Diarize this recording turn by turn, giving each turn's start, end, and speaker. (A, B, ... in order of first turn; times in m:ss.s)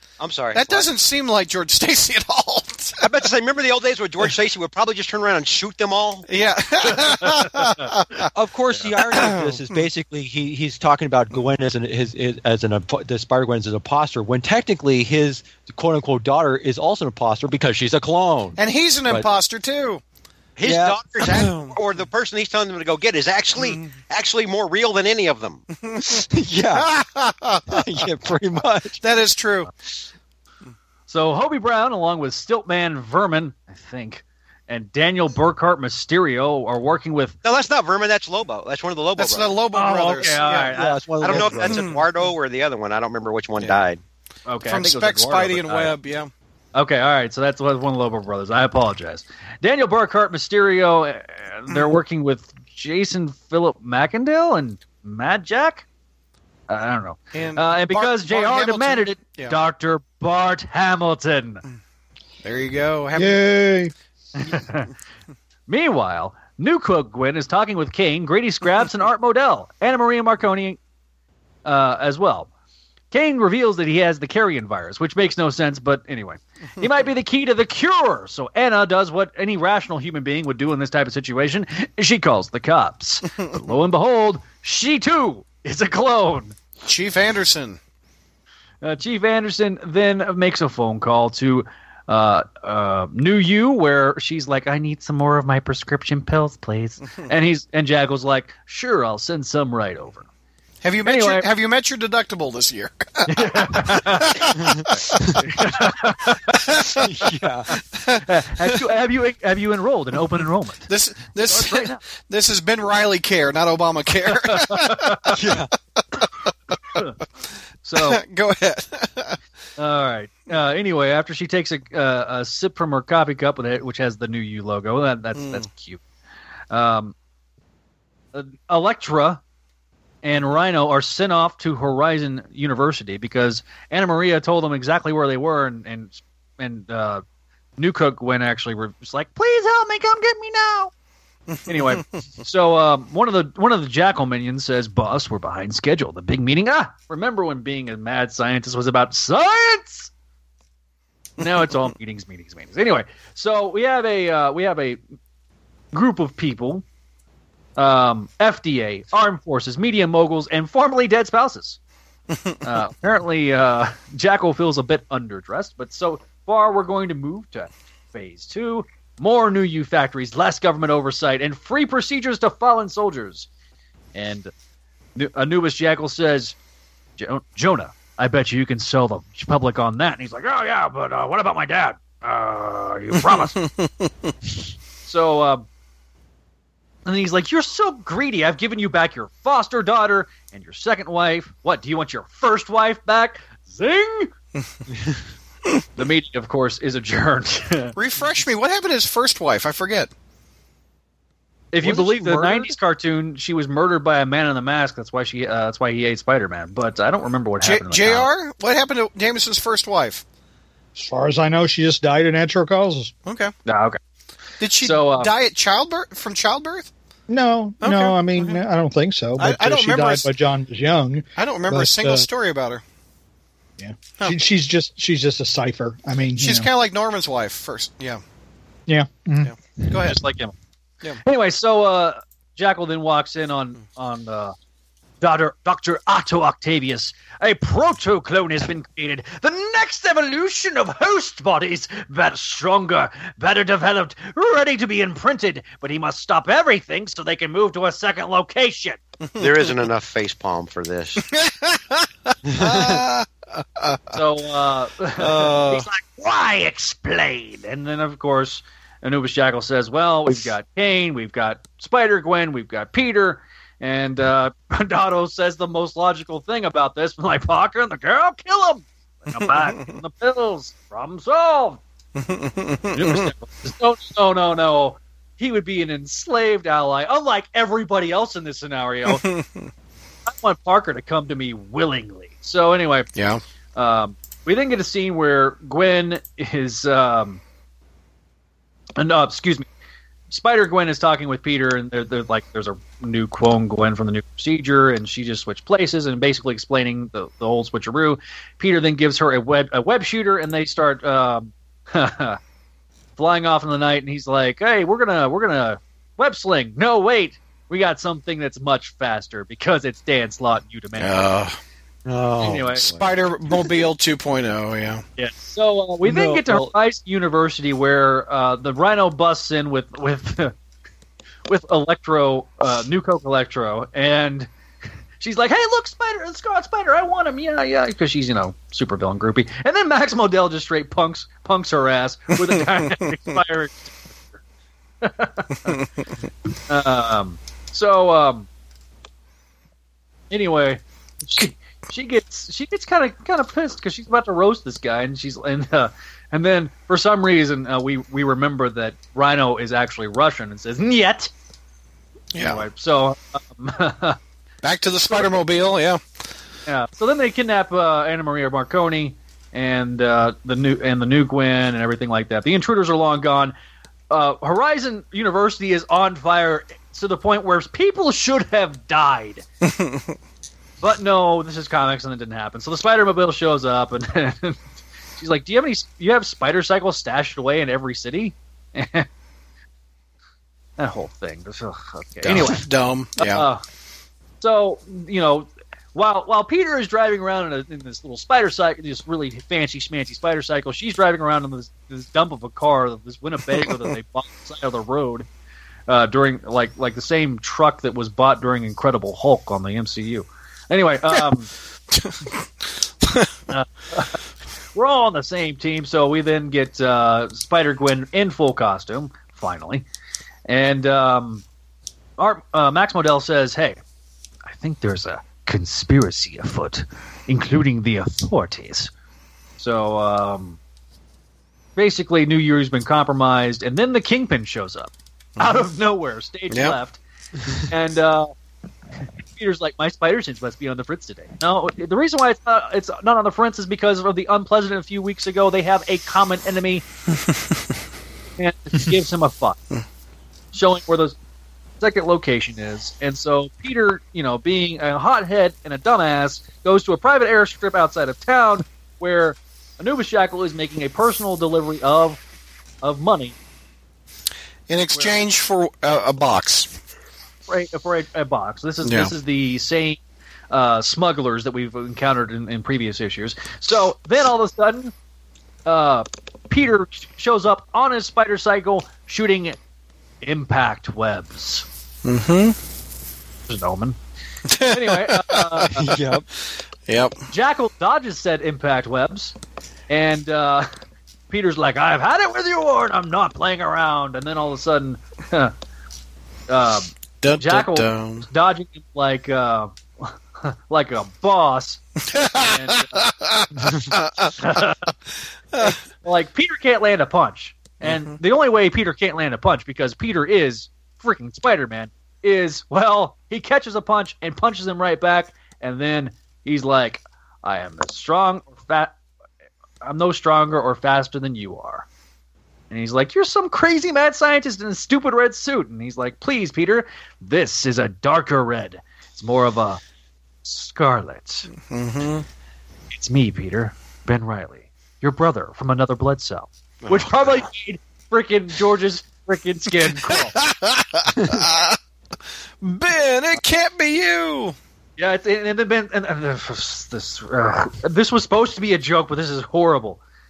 0:00.2-0:00.9 A
0:00.5-0:03.0 B
0:03.0-0:06.2 A
0:06.3-0:08.3 B
0:08.3-0:19.3 C
0:09.1-0:09.6 B
0:18.6-0:20.0 B
0:20.6-0:25.6 A
0:20.6-0:21.5 C
0:21.4-0:21.7 B
0:23.6-0:23.9 B
0:25.7-0:27.8 B
0:26.0-0:26.9 C
0:27.7-0:29.0 C
0:29.0-0:29.7 B
0:31.1-0:37.3 D
0:37.4-0:39.6 A
0:39.2-0:40.7 B
0:39.7-0:41.0 D
0:40.7-0:41.8 C
0:41.2-0:44.0 A
0:41.3-0:42.0 B
0:44.5-0:46.0 D
0:44.6-0:46.3 B
0:46.7-0:55.8 D
0:51.7-0:52.0 B
0:56.7-1:01.6 D
0:57.3-0:59.6 B
1:02.4-1:03.4 B
1:03.2-1:03.9 E
1:04.4-1:04.9 D
1:05.7-1:10.8 D
1:11.6-1:12.5 D
1:13.1-1:26.6 D
1:26.8-1:27.8 B
1:28.8-1:40.3 D
1:40.8-1:45.3 B
1:41.0-1:41.5 D
1:43.3-1:46.6 D
1:44.6-1:45.4 C
1:46.5-1:47.1 B
1:47.0-1:47.8 C
1:48.2-1:52.0 D
1:50.9-1:55.4 B
1:54.5-1:55.3 D
1:55.3-1:55.7 C
1:57.8-1:58.2 D
1:58.0-1:59.4 B
1:59.8-2:06.0 D
2:05.4-2:05.6 B
2:06.7-2:07.1 D
2:08.3-2:09.4 D
2:10.2-2:17.2 D
2:17.8-2:20.9 D
2:21.5-2:22.0 B
2:21.7-2:30.1 D
2:31.4-2:35.0 D
2:35.9-2:36.8 D
2:37.8-2:41.8 D
2:42.6-2:53.5 D
2:54.1-2:54.5 D
2:55.2-2:56.6 D
2:57.2-3:03.6 D
3:03.2-3:04.1 B
3:05.0-3:05.7 D
3:07.0-3:14.3 D
3:16.0-3:18.0 D
3:18.0-3:20.1 B
3:21.7-3:28.3 D
3:21.8-3:22.8 C
3:27.6-3:30.2 B
3:31.0-3:33.1 E
3:33.2-3:33.5 B
3:33.6-3:34.0 D
3:34.6-3:36.9 B
3:34.8-3:35.3 D
3:37.3-3:42.3 E
3:37.8-3:38.6 B
3:39.4-3:40.3 B
3:41.4-3:42.8 B
3:43.8-3:46.7 E
3:46.3-3:48.2 B
3:48.9-3:49.5 E
3:49.4-3:50.2 B
3:50.0-3:50.5 D
3:51.2-3:54.6 D
3:55.2-4:09.0 D
4:09.3-4:09.8 B
4:09.4-4:11.2 A
4:11.2-4:14.2 B
4:14.1-4:31.8 D
4:15.3-4:15.8 C
4:32.2-4:33.3 B
4:32.9-4:39.2 D
4:39.1-4:39.7 B
4:40.2-4:43.1 D
4:43.2-4:43.4 B
4:43.7-4:47.4 D
4:49.0-4:49.7 D
4:50.3-5:02.4 D
5:03.2-5:11.4 D
5:11.0-5:11.6 B
5:12.0-5:13.0 C
5:12.4-5:12.9 D
5:13.0-5:15.0 B
5:15.2-5:20.5 D
5:16.0-5:16.7 C
5:21.5-5:24.5 D
5:25.2-5:34.4 D
5:35.0-5:35.8 D
5:35.7-5:36.0 B
5:36.7-5:38.5 D
5:40.3-5:51.3 D
5:52.3-5:52.6 B
5:52.4-5:54.2 D
5:54.6-5:56.0 B
5:56.6-6:03.6 D
6:04.1-6:09.4 D
6:09.6-6:10.1 B
6:10.8-6:14.6 D
6:15.2-6:19.1 D
6:20.8-6:22.6 D
6:22.2-6:23.4 B
6:23.2-6:23.6 D
6:24.4-6:35.3 D
6:35.9-6:41.5 D
6:41.9-6:43.3 B
6:43.5-6:44.2 D
6:44.7-6:49.8 D
6:50.5-6:51.4 D
6:52.2-6:53.8 D
6:54.5-6:58.9 D
6:59.6-7:00.6 D
7:01.8-7:07.0 D
7:05.4-7:05.6 B
7:06.5-7:06.8 B
7:07.5-7:08.3 D
7:09.3-7:16.8 D
7:18.4-7:19.6 D
7:20.5-7:21.2 D
7:21.8-7:32.2 D
7:32.8-7:33.4 D
7:34.7-7:36.7 B
7:34.9-7:35.2 D
7:37.5-7:40.0 D
7:38.8-7:39.1 B
7:40.5-7:44.9 D
7:45.6-7:49.6 D
7:50.2-7:51.6 D
7:52.0-7:52.6 B
7:53.5-7:54.0 D
7:54.5-7:56.0 B
7:54.6-7:55.9 D
7:55.8-7:56.2 C
7:56.9-7:57.2 B
7:57.3-7:59.4 D
7:59.9-8:00.7 D
8:01.3-8:05.5 D
8:06.5-8:11.8 D
8:07.2-8:08.3 B
8:12.1-8:14.4 B
8:12.3-8:13.1 D
8:14.3-8:14.9 D
8:15.6-8:29.0 D
8:17.8-8:18.1 B
8:29.8-8:31.9 D
8:32.7-8:39.8 D
8:40.4-8:41.5 D
8:41.7-8:42.2 B
8:42.9-8:50.4 D
8:46.8-8:47.4 A
8:50.2-8:51.8 B
8:52.6-8:54.6 B
8:55.0-9:00.0 D